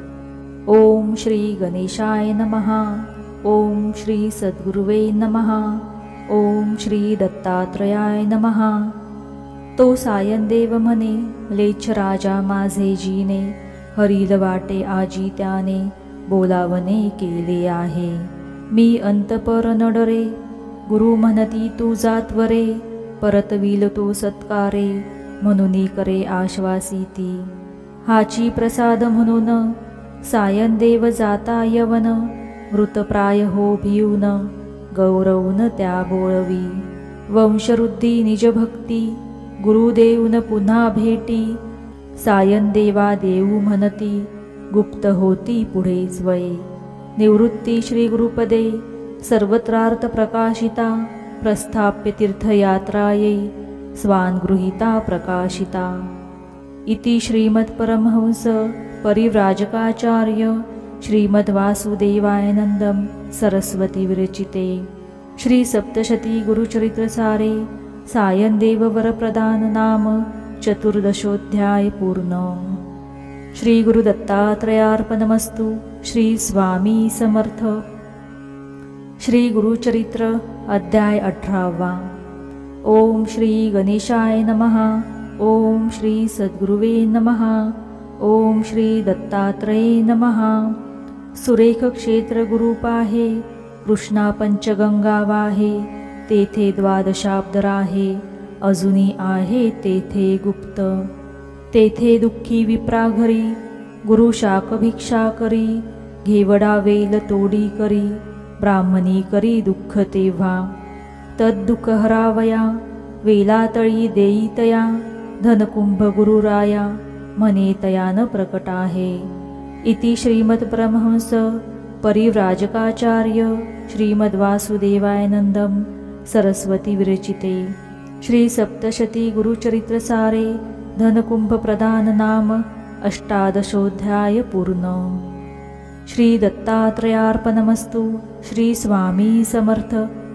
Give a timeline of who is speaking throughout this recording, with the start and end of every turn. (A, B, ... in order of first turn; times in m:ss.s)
0:00.7-0:08.9 A
0:09.8-0:20.3 A
0:20.9-0:27.5 A
0:28.0-0:41.6 A
0:42.2-0:46.6 A
0:47.2-0:56.0 A
0:56.9-1:04.8 A
1:05.4-1:12.8 A
1:13.5-1:17.8 A
1:19.2-1:22.1 A
1:22.8-1:30.8 A
1:31.3-1:41.1 A
1:41.7-1:50.7 A
1:51.4-1:52.7 A
1:53.2-1:59.3 A
1:59.8-2:15.2 A
2:16.0-2:20.1 A